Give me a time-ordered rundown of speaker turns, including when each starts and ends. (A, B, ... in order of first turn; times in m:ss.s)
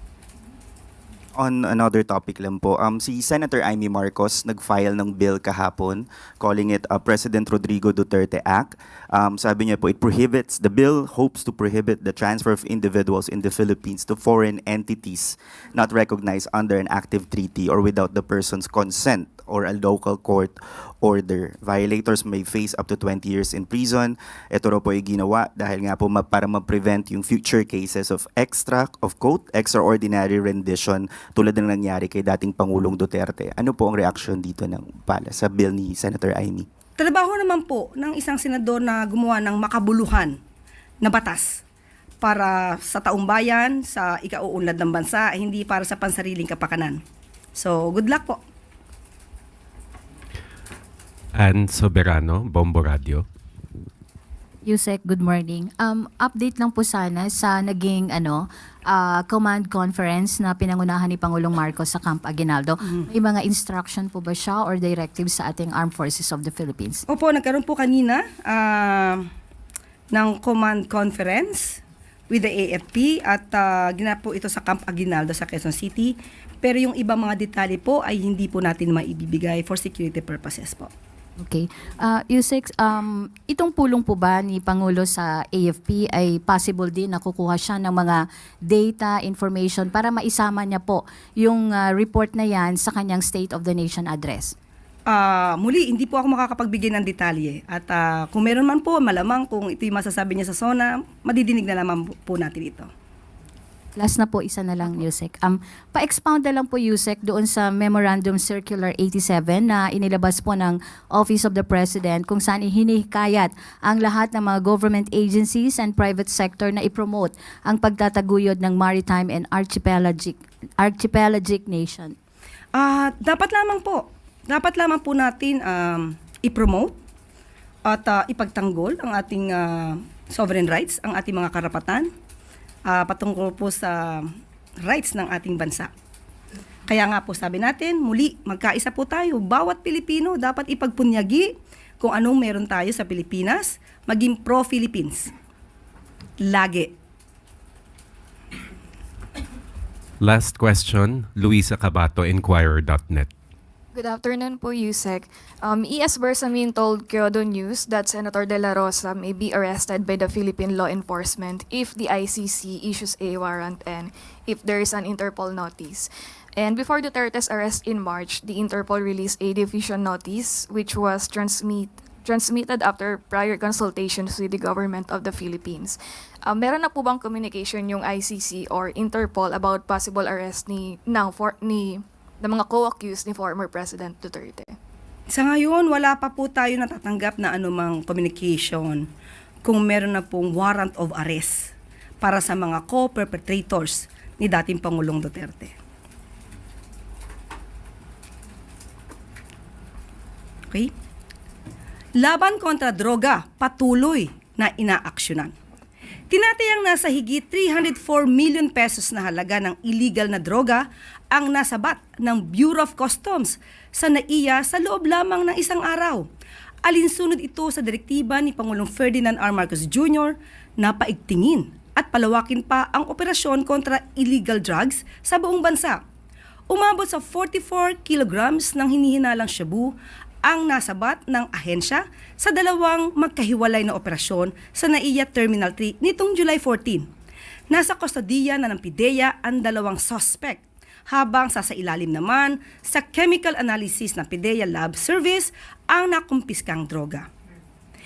0:01.4-0:36.7 A
0:37.0-0:40.4 B
0:41.0-0:41.6 B
0:42.2-0:47.0 B
0:47.6-0:48.4 B
0:51.4-0:53.3 C
0:54.6-1:07.0 D
1:07.1-1:09.2 B
1:10.1-1:20.9 B
1:21.4-1:34.6 D
1:35.1-1:42.9 B
1:44.0-2:02.2 D
2:02.8-2:06.9 B
2:07.8-2:12.1 B
2:12.9-2:14.3 B
2:14.8-2:15.9 B
2:16.9-2:25.3 B
2:26.4-2:26.9 B
2:30.2-2:33.3 C
2:34.0-3:04.8 E
3:05.3-3:09.1 B
3:09.6-3:15.7 B
3:22.2-3:25.5 B
3:26.3-3:36.3 B
3:36.8-3:46.0 B
3:46.7-3:57.1 B
3:57.7-4:07.3 B